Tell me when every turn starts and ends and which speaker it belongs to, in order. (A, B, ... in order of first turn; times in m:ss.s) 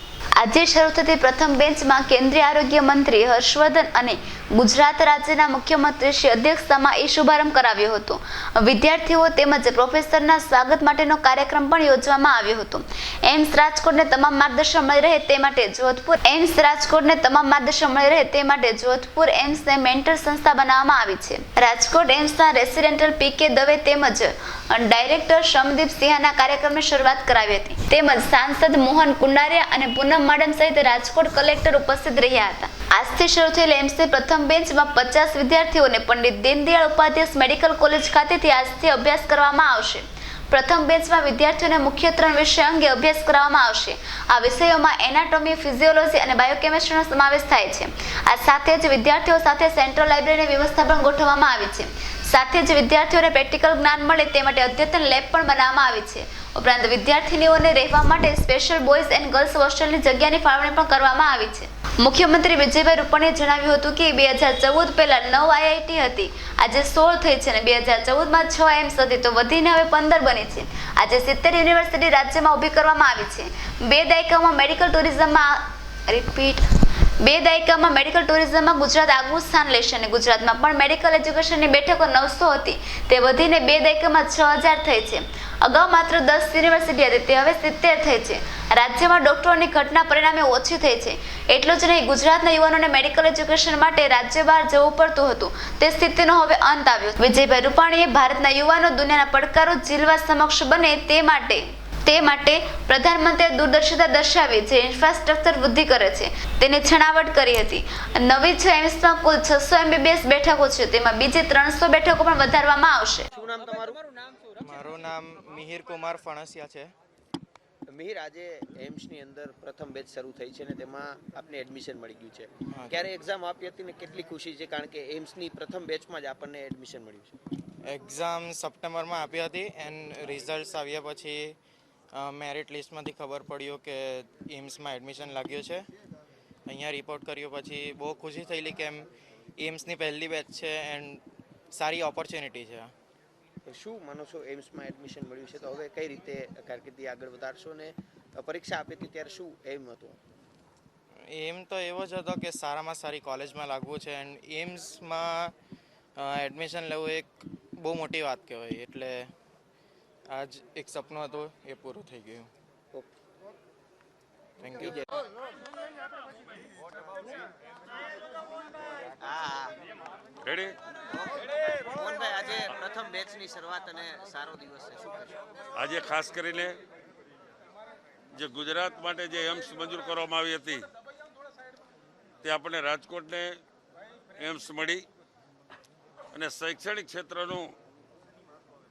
0:00.4-1:16.6 A
1:17.2-1:53.3 A
1:53.3-1:54.0 B
1:54.6-1:56.9 C
1:57.9-2:07.4 B
2:02.7-2:03.1 C
2:07.8-2:11.5 C
2:12.1-2:15.9 C
2:16.7-2:22.9 C
2:23.6-2:30.2 B
2:31.3-2:35.5 C
2:36.2-2:39.3 C
2:40.3-2:42.5 C
2:44.6-2:45.0 C
2:49.2-2:49.7 B
2:50.4-2:50.8 D
2:51.1-2:55.4 B
2:55.7-2:56.8 D
2:58.3-3:00.9 D
3:02.4-3:03.6 D
3:04.4-3:05.0 D
3:06.3-3:07.7 D